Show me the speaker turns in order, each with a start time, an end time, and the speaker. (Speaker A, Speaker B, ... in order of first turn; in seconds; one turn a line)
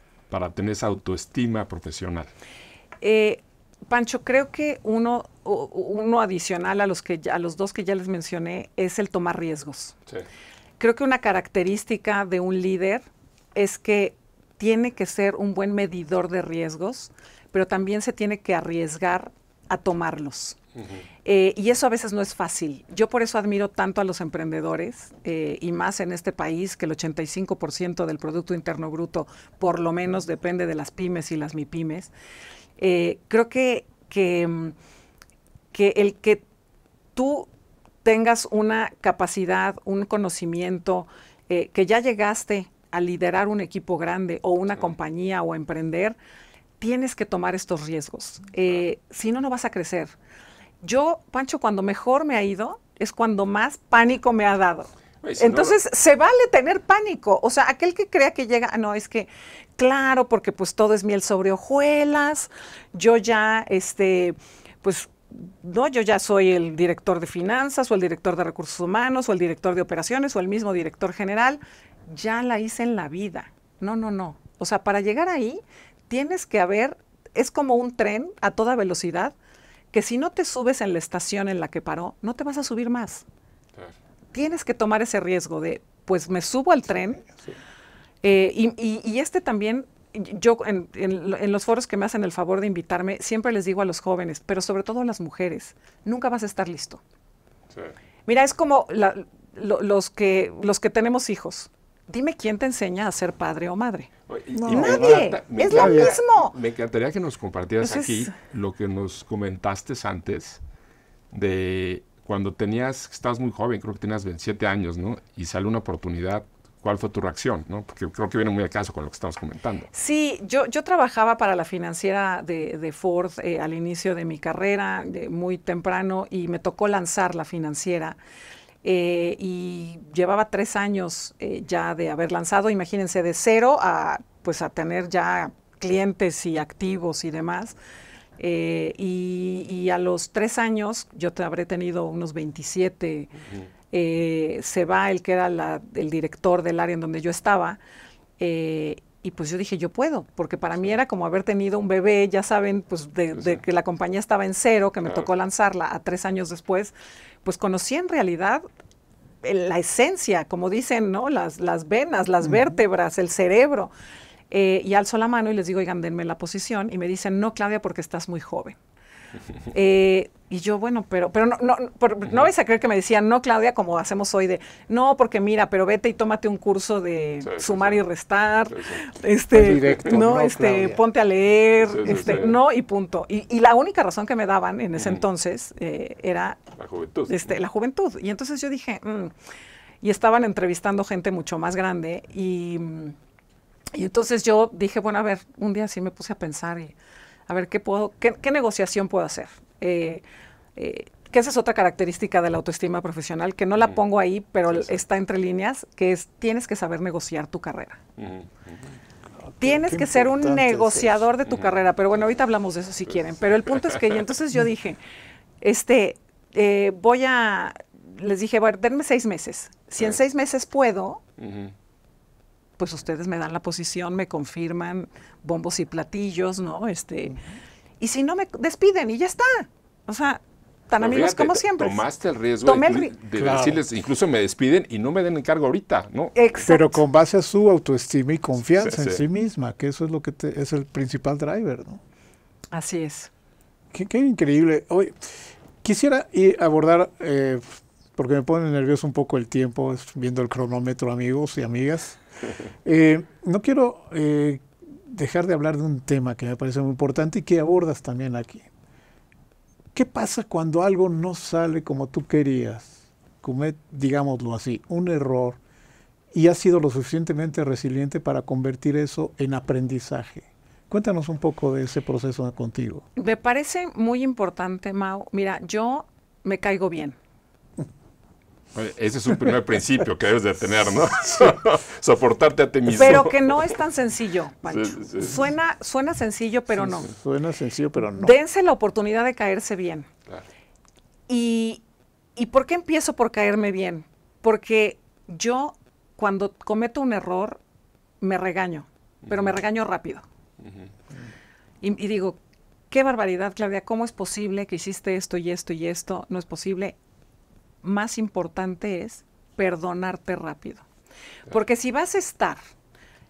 Speaker A: 0.3-2.3
Speaker B: 3.0-10.0
Speaker B: 10.8-20.6
Speaker B: 21.2-32.1
Speaker B: 32.8-34.8
Speaker B: 35.7-36.4
Speaker B: 37.1-37.5
Speaker B: 38.0-46.2
Speaker B: 46.8-50.2
Speaker B: 50.8-79.3
Speaker A: 55.2-55.8
Speaker B: 79.9-83.2
Speaker B: 84.3-87.3
Speaker B: 88.2-97.0
Speaker B: 98.3-104.1
Speaker A: 104.3-110.6
Speaker C: 104.5-106.2
Speaker B: 104.7-106.6
Speaker B: 107.8-108.3
Speaker A: 111.3-119.9
Speaker B: 119.9-128.2
Speaker B: 128.8-137.8
Speaker B: 138.4-143.3
Speaker B: 143.9-147.8
Speaker B: 148.4-158.7
Speaker B: 159.4-163.9
Speaker C: 162.4-162.7
Speaker B: 164.5-168.8
Speaker B: 169.7-186.6
Speaker A: 177.4-178.0
Speaker A: 178.7-179.0
Speaker C: 179.5-181.0
Speaker A: 179.8-180.1
Speaker A: 181.8-182.6
Speaker C: 182.1-182.3
Speaker A: 185.0-185.2
Speaker A: 186.8-187.6
Speaker B: 187.3-189.3
Speaker B: 190.0-193.2
Speaker B: 193.9-196.9
Speaker B: 197.5-200.2
Speaker B: 200.8-208.0
Speaker A: 204.7-205.0
Speaker A: 208.2-208.9
Speaker C: 209.4-211.2
Speaker B: 209.6-215.0
Speaker A: 213.7-214.0
Speaker B: 215.6-221.2
Speaker A: 221.4-221.7
Speaker B: 222.8-227.4
Speaker B: 228.0-232.0
Speaker A: 231.0-236.3
Speaker B: 232.6-233.1
Speaker C: 233.3-233.8
Speaker B: 236.3-237.0
Speaker C: 236.7-242.0
Speaker A: 238.8-239.2
Speaker B: 242.7-243.3
Speaker C: 243.9-245.3
Speaker C: 245.8-252.2
Speaker C: 252.8-258.7
Speaker C: 259.9-265.6
Speaker C: 266.3-273.0
Speaker B: 273.2-277.2
Speaker A: 278.8-283.7
Speaker B: 282.9-287.1
Speaker A: 284.7-285.4
Speaker C: 286.7-288.4
Speaker B: 288.0-290.1
Speaker B: 291.3-291.8
Speaker B: 292.4-297.6
Speaker B: 298.2-300.2
Speaker A: 299.2-299.6
Speaker A: 300.6-300.9
Speaker B: 301.8-302.4
Speaker B: 302.9-307.0
Speaker B: 307.8-310.9
Speaker B: 311.5-312.6